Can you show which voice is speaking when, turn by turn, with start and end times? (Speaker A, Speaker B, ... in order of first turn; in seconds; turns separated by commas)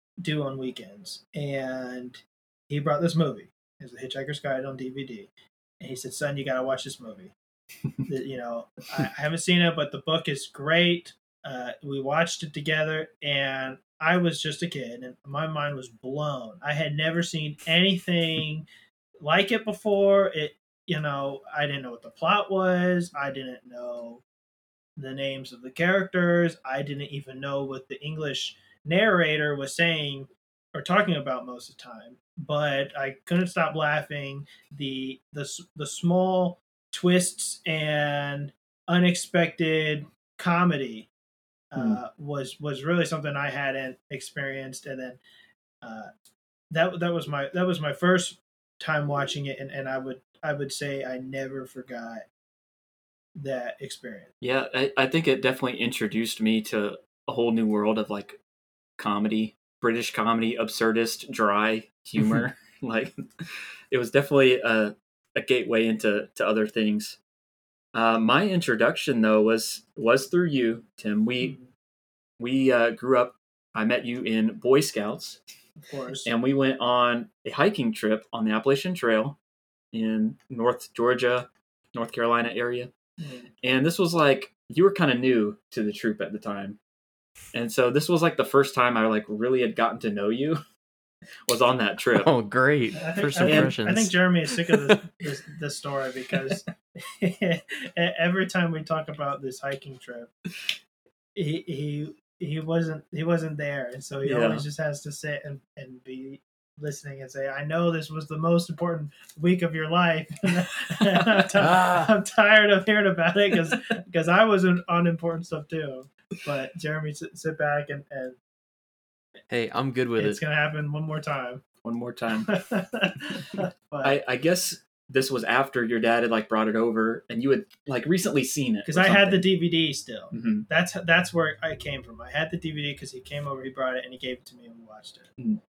Speaker A: 0.2-5.3, Speaker A: 5.8-7.3, Speaker A: 8.1-18.6, Speaker A: 19.2-24.2, Speaker A: 25.0-41.1, Speaker A: 41.7-45.2, Speaker A: 45.8-46.1, Speaker A: 46.7-52.2, Speaker A: 53.4-54.3, Speaker B: 54.4-58.4, Speaker B: 59.0-67.2, Speaker B: 67.9-71.6, Speaker B: 72.4-75.4, Speaker A: 75.8-76.3, Speaker B: 76.2-79.4, Speaker B: 79.9-82.9, Speaker A: 83.2-83.5, Speaker B: 83.6-86.8, Speaker B: 87.5-90.6, Speaker B: 91.5-92.3, Speaker C: 92.1-94.2, Speaker A: 93.0-96.7, Speaker B: 93.4-93.7, Speaker A: 97.2-100.3, Speaker A: 101.3-118.4, Speaker B: 104.2-104.6, Speaker C: 111.6-112.1, Speaker C: 119.5-120.4, Speaker A: 120.2-121.6, Speaker B: 121.8-122.5, Speaker A: 122.5-124.2, Speaker B: 124.0-129.4, Speaker A: 128.9-135.3, Speaker B: 130.3-130.7